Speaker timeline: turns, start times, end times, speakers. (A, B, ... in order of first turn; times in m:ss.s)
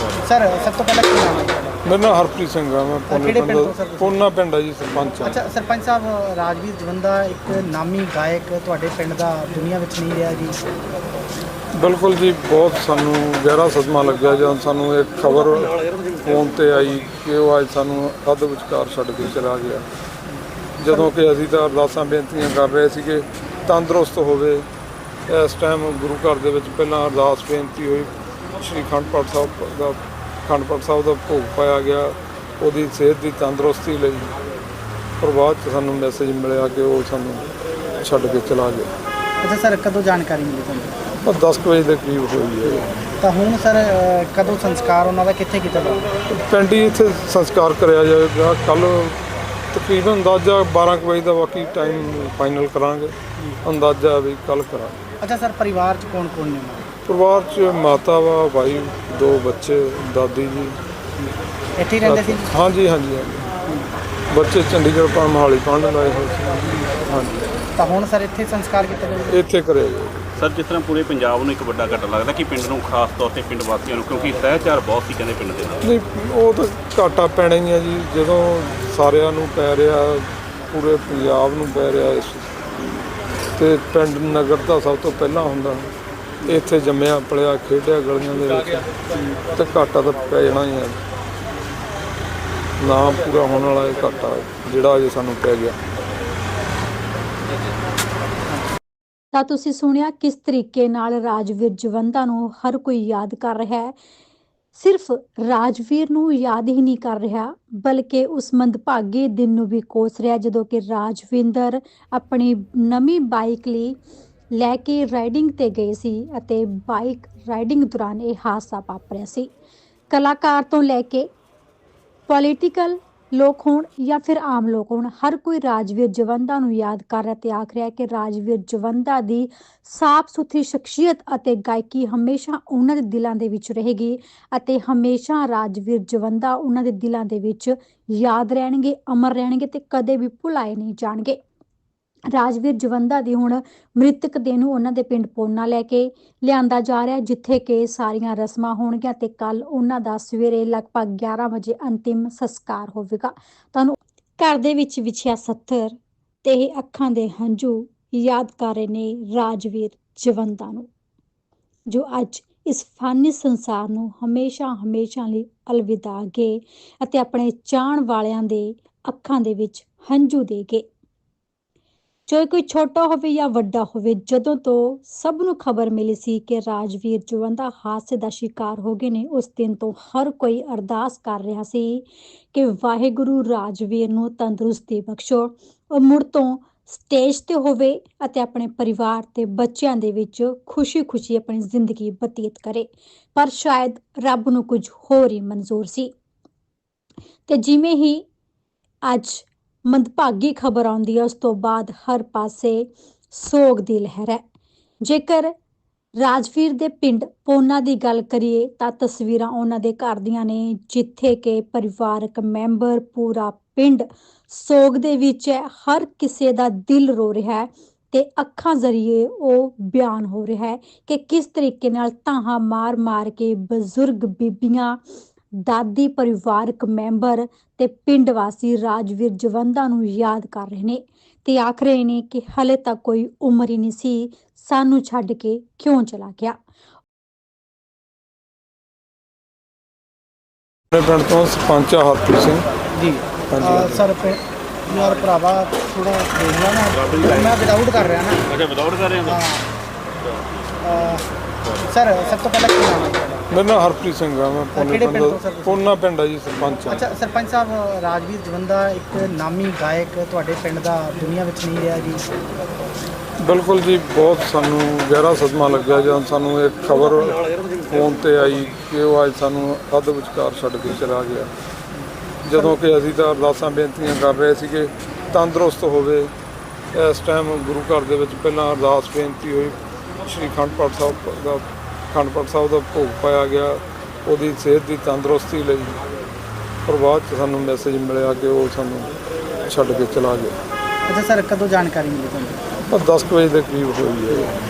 0:00.1-0:01.8 A
0:01.8-0:05.4 B
0:03.1-0:04.2 A
0:05.2-0:10.6 A
0:11.8-0:19.9 B
0:20.3-0:21.0 A
0:20.8-0:24.7 B
0:25.3-0:34.3 B
0:35.2-0:38.9 B
0:39.4-0:40.9 A
0:41.2-0:42.9 B
0:43.2-0:46.1 A
0:46.3-0:49.2 B
0:49.7-0:54.9 B
0:55.2-0:56.9 A
0:57.1-1:00.8 B
1:01.2-1:02.5 A
1:02.0-1:03.4 B
1:04.3-1:07.5 B
1:07.8-1:09.4 A
1:09.3-1:10.2 B
1:10.4-1:15.8 C
1:15.8-1:22.6 B
1:23.6-1:25.9 B
1:26.4-1:28.9 B
1:29.5-1:31.0 B
1:32.8-1:35.8 B
1:39.3-1:43.9 D
1:44.7-1:54.0 D
1:54.5-1:59.5 D
2:00.1-2:01.3 D
2:02.3-2:21.4 D
2:22.3-2:40.9 D
2:41.9-2:50.8 D
2:52.3-3:16.1 D
3:17.5-3:18.2 D
3:19.0-3:24.4 D
3:25.0-3:25.5 D
3:26.2-3:45.0 D
3:45.5-3:56.6 D
4:00.9-4:02.6 B
4:02.9-4:08.4 A
4:03.5-4:04.0 B
4:08.5-4:09.2 C
4:09.2-4:09.6 A
4:10.8-4:11.2 A
4:11.8-4:13.4 A
4:13.5-4:17.0 B
4:14.7-4:15.8 A
4:16.9-4:22.2 A
4:23.4-4:31.5 B
4:32.4-4:36.3 B
4:36.9-4:46.0 B
4:46.8-4:49.2 B
4:49.7-4:50.5 B
4:51.1-4:52.6 A
4:52.9-4:54.5 B